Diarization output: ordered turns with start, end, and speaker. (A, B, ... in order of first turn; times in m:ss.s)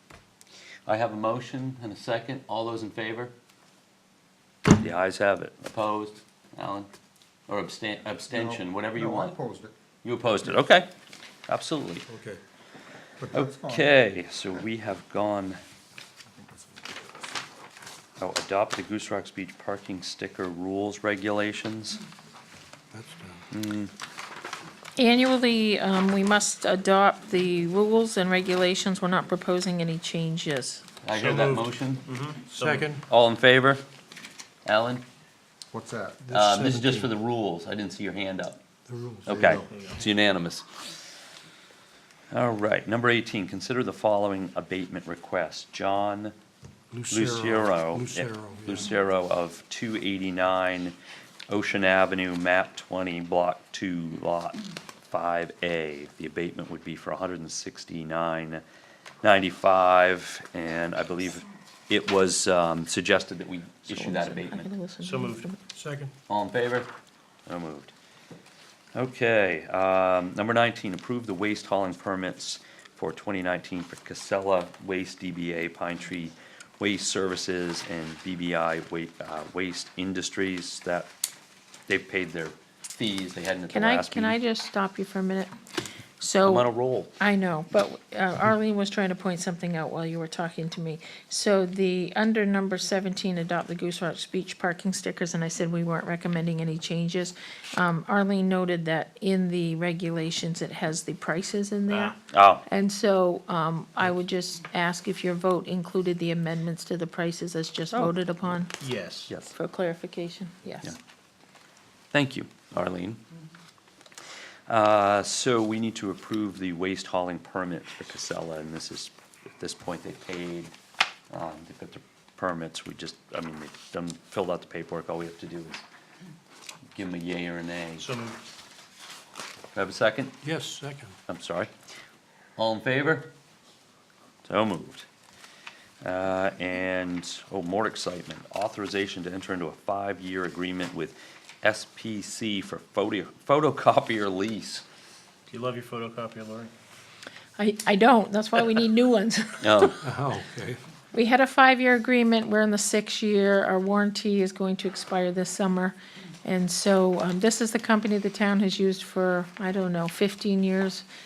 0:00.9-0:03.3 A
0:04.7-0:06.9 A
0:07.5-0:09.4 A
0:08.3-0:09.7 B
0:10.0-0:10.9 A
0:11.5-0:12.1 A
0:12.1-0:12.4 C
0:13.2-0:14.6 B
0:13.3-0:15.6 A
0:16.3-0:17.3 B
0:18.2-0:22.0 A
0:22.9-0:23.5 C
0:23.5-0:23.9 A
0:25.0-0:30.8 D
0:31.0-0:32.1 A
0:31.1-0:32.9 E
0:32.5-0:33.0 C
0:33.1-0:33.8 A
0:34.6-0:35.0 A
0:35.7-0:36.3 B
0:36.3-0:37.1 C
0:36.3-0:38.6 A
0:38.9-0:39.6 C
0:39.3-0:39.7 B
0:39.3-0:40.8 A
0:39.5-0:40.1 E
0:42.3-0:46.3 A
0:46.9-0:48.9 C
0:47.1-0:51.0 A
0:51.5-0:54.6 A
0:55.1-0:58.6 A
0:59.2-1:04.7 A
1:04.0-1:05.5 D
1:05.0-1:05.5 E
1:05.7-1:06.1 C
1:06.3-1:06.9 A
1:07.5-1:07.9 A
1:08.9-1:21.1 A
1:21.9-1:24.4 A
1:23.7-1:25.5 D
1:26.2-1:26.6 D
1:26.4-1:27.1 A
1:27.2-1:42.1 D
1:41.9-1:42.2 E
1:42.3-1:42.6 A
1:42.7-1:48.7 D
1:47.9-1:48.6 A
1:48.8-1:49.4 E
1:49.3-1:49.5 A
1:49.5-1:50.9 D
1:52.1-1:53.2 A
1:54.7-2:00.7 A
2:01.3-2:05.8 A
2:06.9-2:08.1 A
2:08.0-2:08.4 E
2:09.7-2:10.4 A
2:10.4-2:11.2 C
2:11.3-2:11.7 A
2:12.6-2:13.3 A
2:14.4-2:15.1 A
2:16.0-2:24.8 A
2:25.5-2:26.7 E
2:27.6-2:29.6 D
2:29.6-2:30.0 A
2:30.0-2:30.8 C
2:31.1-2:35.9 D
2:36.4-2:41.0 D